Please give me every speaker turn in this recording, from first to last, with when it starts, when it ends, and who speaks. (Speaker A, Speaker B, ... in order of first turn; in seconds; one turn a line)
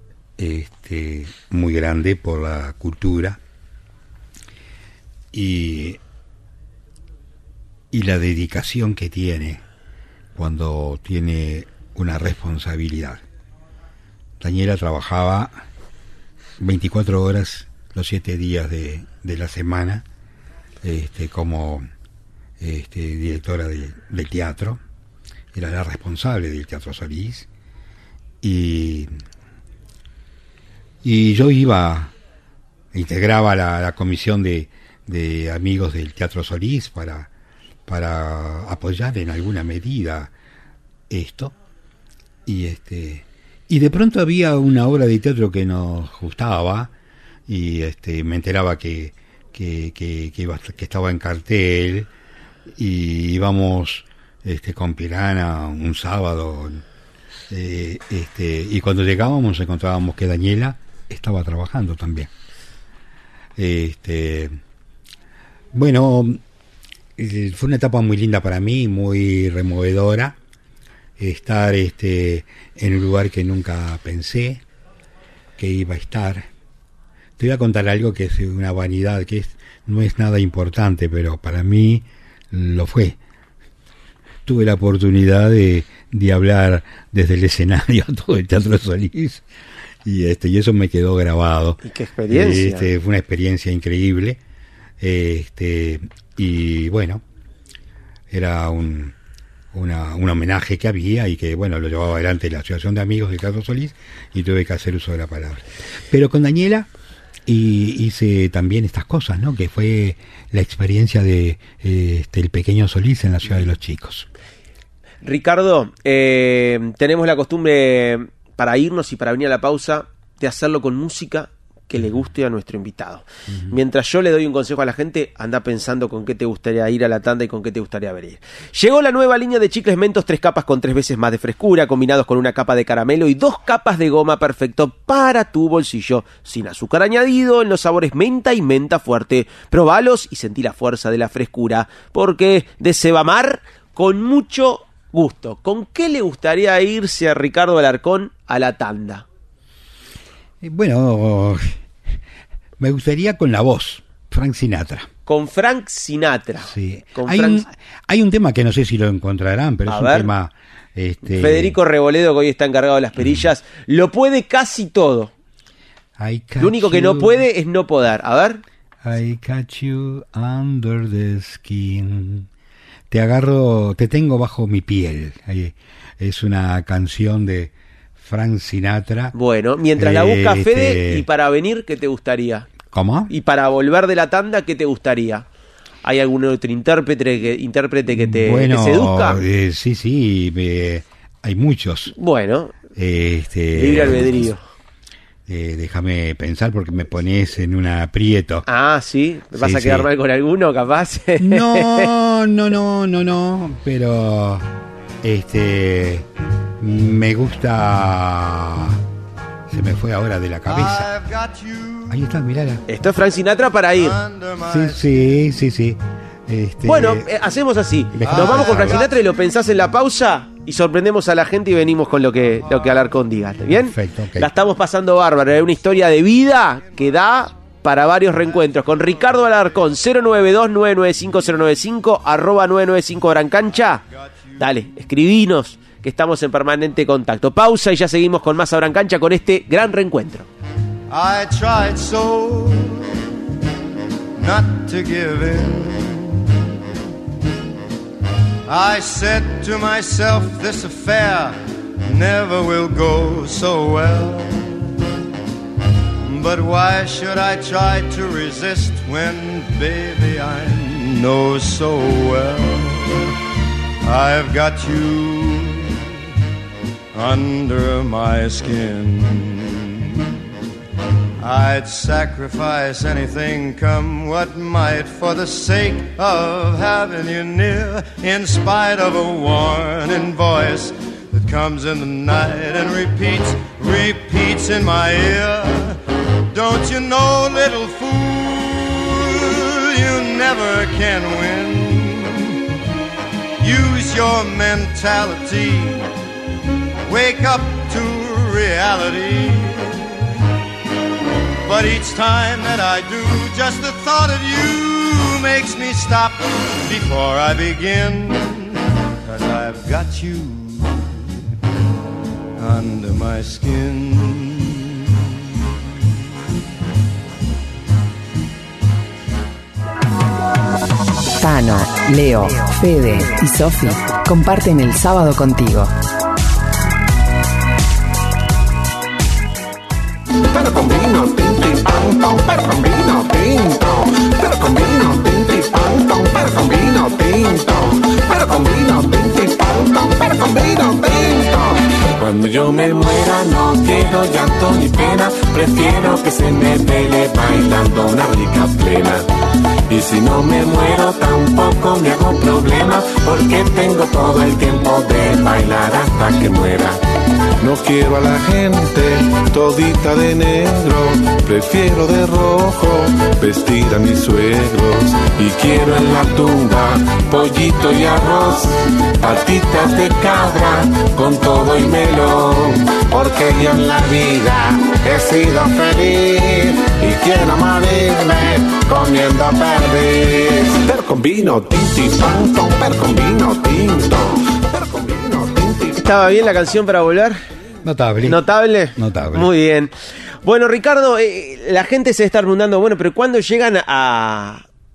Speaker A: 0.4-3.4
Speaker A: 5.3-6.0
Speaker A: 7.9-9.6
Speaker A: 10.3-13.2
Speaker A: 14.4-15.6
Speaker A: 16.6-20.0
Speaker A: 20.8-21.9
Speaker A: 22.6-24.8
Speaker A: 25.5-27.5
Speaker A: 28.4-29.1
Speaker A: 31.0-32.1
Speaker A: 32.9-37.3
Speaker A: 37.9-40.3
Speaker A: 41.1-41.5
Speaker A: 42.5-46.9
Speaker A: 47.5-52.1
Speaker A: 52.7-56.8
Speaker A: 57.5-62.3
Speaker A: 63.6-64.6
Speaker A: 65.7-66.4
Speaker A: 67.2-70.4
Speaker A: 71.2-74.6
Speaker A: 75.6-76.5
Speaker A: 77.4-83.2
Speaker A: 84.5-89.4
Speaker A: 90.0-94.4
Speaker B: 91.8-92.9
Speaker A: 95.0-97.2
Speaker A: 98.3-99.1
Speaker A: 99.7-106.9
Speaker A: 107.5-114.3
Speaker B: 115.2-149.2
Speaker A: 123.5-123.8
Speaker A: 150.6-151.8
Speaker A: 152.8-155.1
Speaker B: 155.2-157.6
Speaker A: 156.6-161.8
Speaker B: 159.9-160.3
Speaker B: 161.2-165.3
Speaker A: 166.2-167.4
Speaker B: 166.6-168.6
Speaker A: 169.0-172.5
Speaker A: 173.1-179.3
Speaker B: 179.3-182.7
Speaker A: 180.0-181.2
Speaker A: 182.9-183.3
Speaker B: 183.3-185.4
Speaker B: 186.0-189.4
Speaker A: 188.1-192.1
Speaker B: 192.2-192.7
Speaker A: 192.9-194.5
Speaker B: 193.7-194.6
Speaker A: 195.5-198.7
Speaker B: 198.7-202.1
Speaker A: 199.5-200.1
Speaker A: 201.4-204.7
Speaker A: 205.2-206.3
Speaker A: 206.8-209.0
Speaker A: 209.7-211.1
Speaker C: 210.6-212.2
Speaker A: 212.1-212.8
Speaker B: 212.9-214.2
Speaker C: 213.9-215.5
Speaker A: 214.6-217.3
Speaker B: 216.8-234.0
Speaker A: 218.1-219.1
Speaker C: 218.2-219.5
Speaker A: 223.7-224.5
Speaker C: 228.5-229.8
Speaker C: 234.4-234.6
Speaker B: 234.6-240.5
Speaker C: 241.1-243.2
Speaker C: 244.3-246.5
Speaker C: 248.7-254.9
Speaker C: 256.2-263.2
Speaker C: 264.0-266.0
Speaker C: 267.1-270.3
Speaker C: 271.4-286.0
Speaker C: 286.5-292.6
Speaker C: 293.6-296.1
Speaker C: 297.1-300.2
Speaker C: 301.6-311.2
Speaker C: 312.6-315.2
Speaker D: 321.4-325.9
Speaker E: 330.5-349.2
Speaker E: 349.9-357.0
Speaker E: 357.6-361.8
Speaker F: 358.1-359.0
Speaker F: 361.5-362.9
Speaker E: 362.4-386.0
Speaker F: 363.4-365.3
Speaker B: 386.0-387.4
Speaker A: 387.8-388.4
Speaker B: 388.2-389.9
Speaker A: 388.9-389.5
Speaker B: 390.4-394.6